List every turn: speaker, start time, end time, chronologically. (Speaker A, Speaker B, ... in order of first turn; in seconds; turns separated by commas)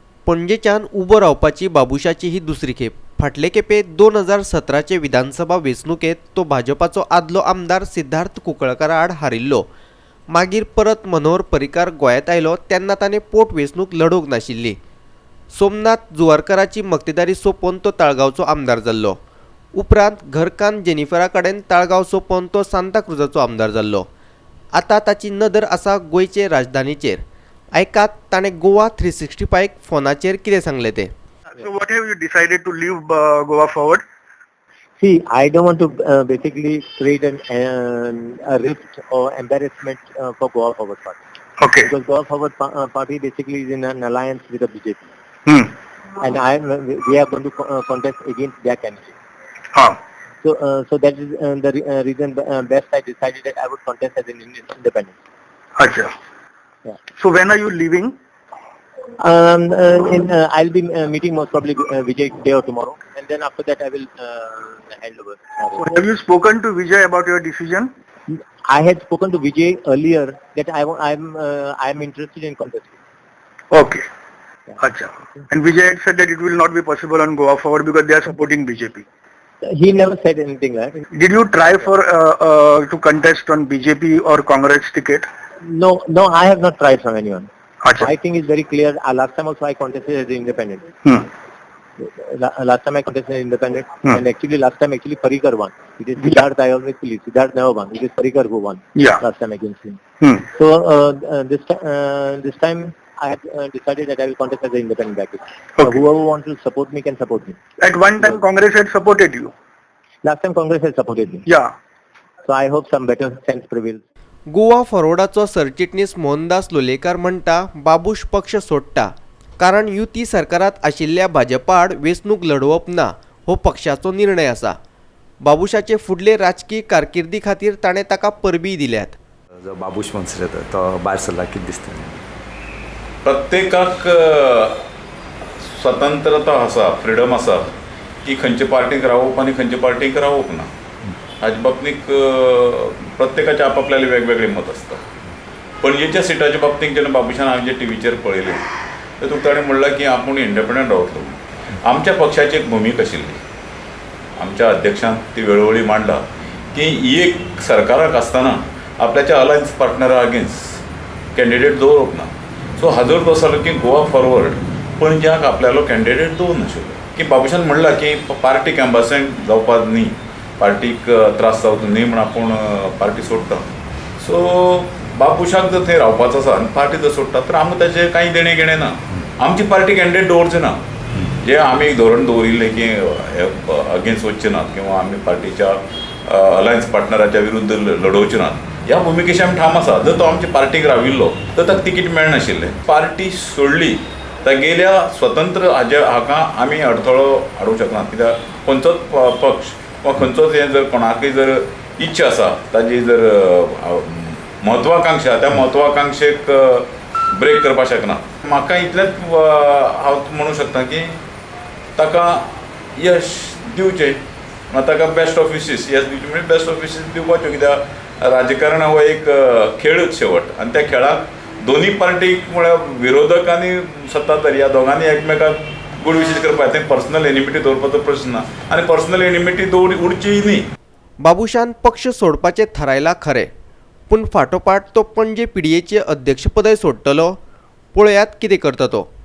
Speaker A: 0.3-9.7, Speaker A: 10.3-14.8, Speaker A: 15.5-19.2, Speaker A: 19.8-24.1, Speaker A: 24.8-27.2, Speaker A: 27.8-31.1, Speaker B: 31.8-32.9, Speaker B: 33.6-33.9, Speaker C: 35.0-41.2, Speaker C: 41.8-45.0, Speaker C: 46.2-49.1, Speaker C: 50.4-55.1, Speaker B: 57.2-58.0, Speaker C: 59.2-65.9, Speaker B: 66.1-67.8, Speaker C: 68.3-72.9, Speaker B: 75.6-79.0, Speaker C: 79.6-81.0, Speaker B: 81.2-82.1, Speaker B: 82.7-85.2, Speaker C: 85.6-90.9, Speaker C: 92.0-100.0, Speaker C: 100.5-107.6, Speaker C: 110.2-111.5, Speaker C: 112.5-114.0, Speaker A: 114.5-124.8, Speaker A: 125.4-129.2, Speaker D: 129.8-132.2, Speaker E: 133.2-134.8, Speaker E: 135.6-137.7, Speaker E: 138.2-140.7, Speaker E: 141.4-145.0, Speaker E: 145.8-148.7, Speaker E: 149.2-153.4, Speaker E: 154.4-160.8, Speaker E: 161.3-180.8, Speaker E: 181.4-211.2, Speaker E: 212.0-214.2, Speaker E: 214.7-230.7, Speaker A: 231.2-233.5, Speaker A: 234.1-237.4, Speaker A: 237.9-239.1